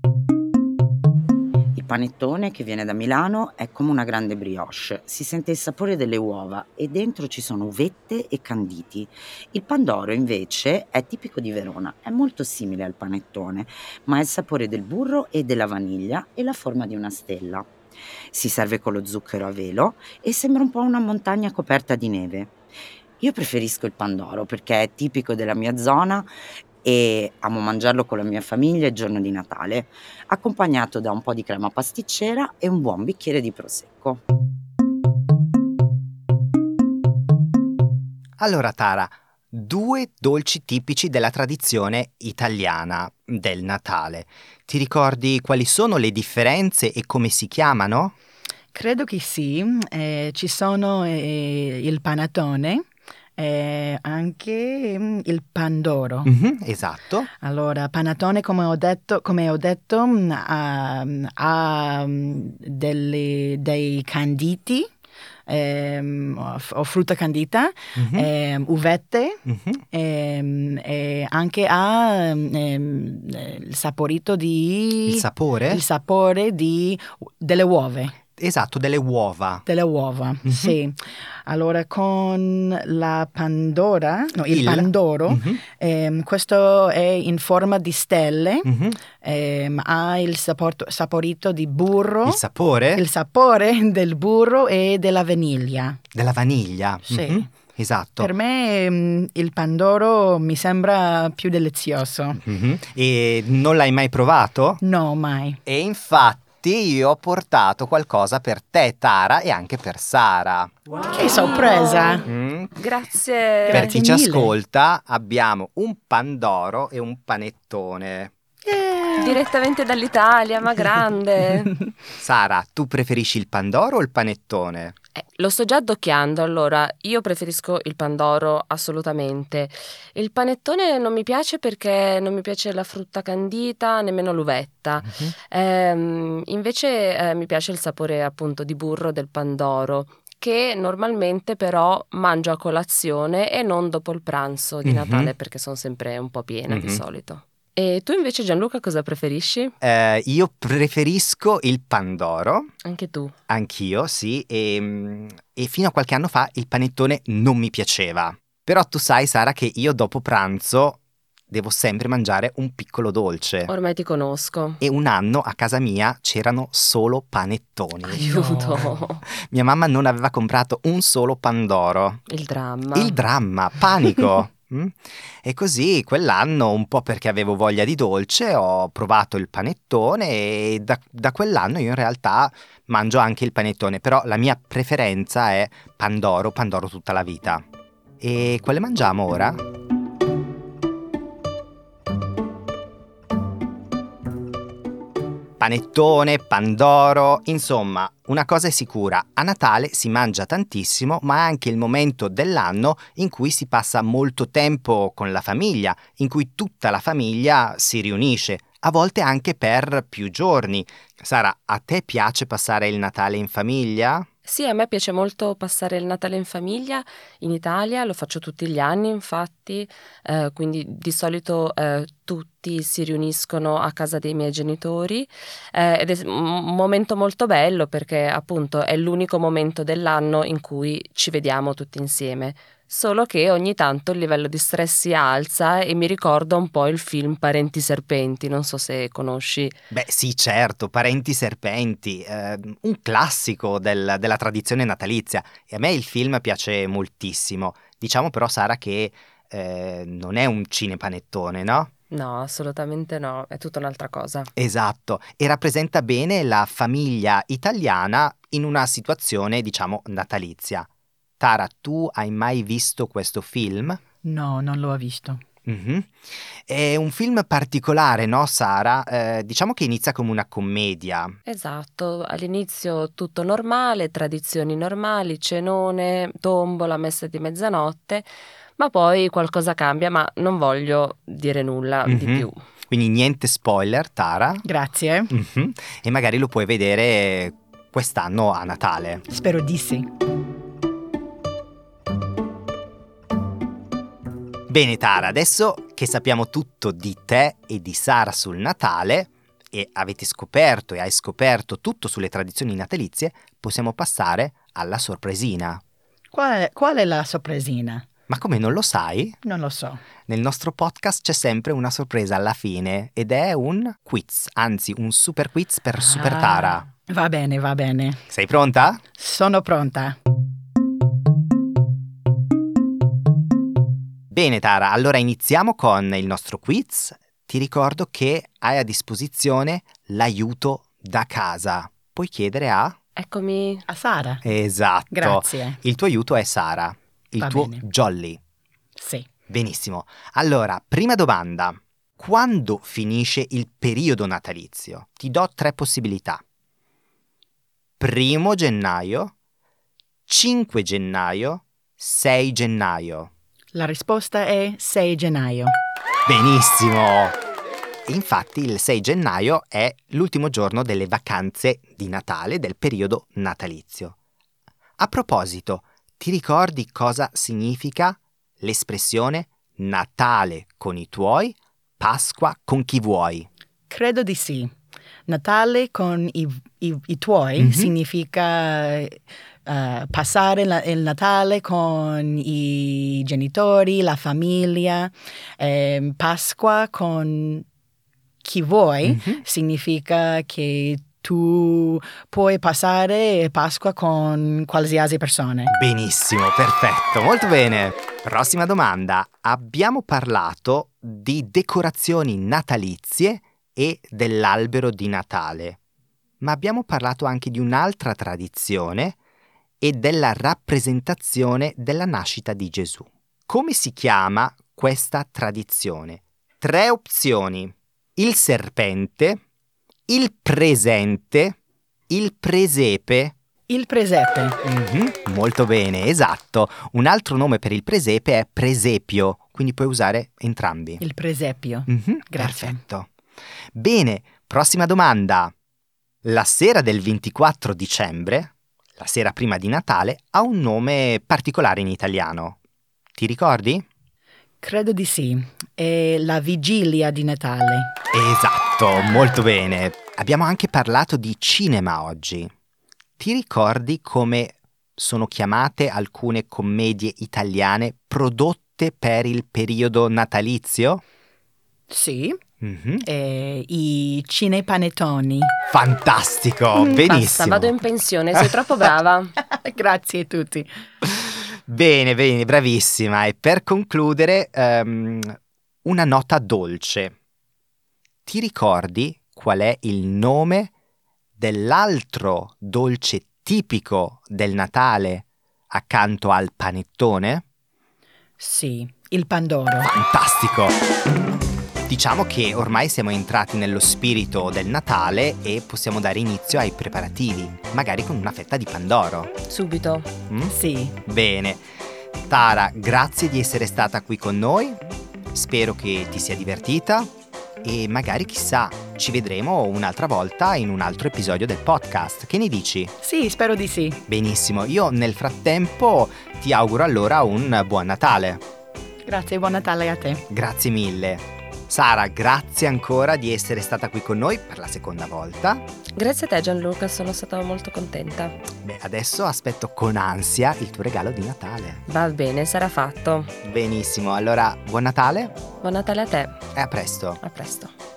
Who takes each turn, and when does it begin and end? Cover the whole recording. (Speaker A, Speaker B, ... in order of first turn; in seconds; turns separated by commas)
Speaker A: 1.8-17.7, Speaker A: 18.3-22.5, Speaker A: 23.2-26.3, Speaker A: 26.8-34.2, Speaker B: 38.4-48.2, Speaker C: 48.7-52.9, Speaker C: 53.4-56.3, Speaker B: 56.3-57.3, Speaker C: 57.4-64.9, Speaker C: 65.5-78.2, Speaker B: 68.0-68.3, Speaker B: 69.5-69.8, Speaker B: 75.1-75.8, Speaker B: 78.4-79.7, Speaker C: 79.7-92.4, Speaker B: 80.5-80.8, Speaker B: 84.5-85.6, Speaker B: 88.7-89.0, Speaker B: 92.3-93.0, Speaker C: 92.9-96.0, Speaker B: 96.1-98.3, Speaker C: 97.1-97.5, Speaker C: 98.2-102.4, Speaker B: 102.4-104.8, Speaker C: 104.8-105.6, Speaker B: 105.7-110.7, Speaker C: 111.1-112.2, Speaker D: 111.2-113.9, Speaker B: 112.3-112.7, Speaker C: 113.7-114.5, Speaker B: 113.7-118.3, Speaker C: 118.7-119.4, Speaker D: 119.2-121.8, Speaker B: 122.2-125.0, Speaker D: 125.2-149.7, Speaker B: 144.8-145.3, Speaker B: 146.7-147.0, Speaker B: 149.8-152.7, Speaker D: 152.8-153.3, Speaker B: 153.5-161.0, Speaker B: 161.5-163.7, Speaker D: 163.7-164.8, Speaker B: 164.8-168.8, Speaker D: 168.0-169.2, Speaker C: 168.3-168.8, Speaker B: 169.4-172.2, Speaker D: 172.3-173.2, Speaker B: 172.9-187.6, Speaker B: 188.2-189.6, Speaker B: 195.6-214.3, Speaker D: 214.5-239.8, Speaker B: 239.9-251.9, Speaker D: 252.1-254.5, Speaker B: 254.6-260.9, Speaker B: 261.4-264.0, Speaker C: 264.2-265.4, Speaker B: 265.7-271.3, Speaker D: 271.5-282.6, Speaker B: 282.1-284.6, Speaker C: 284.6-285.3, Speaker B: 285.3-289.2, Speaker C: 289.3-290.1, Speaker B: 294.7-305.8, Speaker C: 306.3-308.1, Speaker B: 308.3-309.4, Speaker C: 309.4-310.0, Speaker B: 310.3-316.9, Speaker C: 316.0-318.2, Speaker B: 318.3-319.0, Speaker C: 319.2-320.2, Speaker B: 324.3-333.0, Speaker D: 333.2-333.9, Speaker C: 333.9-334.4, Speaker B: 334.4-338.4, Speaker C: 335.1-335.8, Speaker C: 337.4-337.8, Speaker C: 339.0-339.3, Speaker B: 339.5-346.4, Speaker B: 348.0-349.3, Speaker B: 350.3-353.3, Speaker C: 353.7-355.8, Speaker B: 356.3-357.4, Speaker B: 358.1-364.1, Speaker B: 365.0-373.5, Speaker C: 373.9-374.7, Speaker C: 375.3-387.7, Speaker B: 377.6-377.9, Speaker C: 388.4-395.7, Speaker B: 389.1-389.4, Speaker B: 395.7-405.8, Speaker B: 406.4-409.2, Speaker B: 409.8-419.4, Speaker B: 420.1-421.6, Speaker B: 422.1-423.4, Speaker C: 423.7-424.6, Speaker B: 424.6-431.0, Speaker C: 431.0-432.8, Speaker B: 431.9-433.1, Speaker B: 433.7-435.5, Speaker B: 436.2-442.6, Speaker B: 443.1-443.9, Speaker C: 444.6-447.9, Speaker B: 448.1-452.5, Speaker B: 453.2-461.0, Speaker C: 461.9-462.4, Speaker B: 462.6-463.1, Speaker C: 463.0-465.5, Speaker B: 465.7-467.8, Speaker D: 466.8-469.3, Speaker C: 469.4-470.7, Speaker B: 471.0-477.1, Speaker B: 478.2-480.7, Speaker B: 481.4-487.4, Speaker C: 488.4-489.9, Speaker B: 489.8-490.8, Speaker B: 491.9-499.3, Speaker D: 499.4-500.1, Speaker B: 500.3-501.6, Speaker C: 500.5-501.0, Speaker B: 502.3-504.8, Speaker B: 505.3-507.1, Speaker B: 507.6-512.9, Speaker C: 513.0-514.0, Speaker B: 514.1-518.4, Speaker C: 519.0-520.2, Speaker B: 520.3-525.6, Speaker D: 526.0-528.4, Speaker B: 528.6-531.8, Speaker D: 531.9-533.3, Speaker B: 533.4-535.4, Speaker D: 535.6-536.4, Speaker B: 536.5-537.2, Speaker D: 537.2-537.7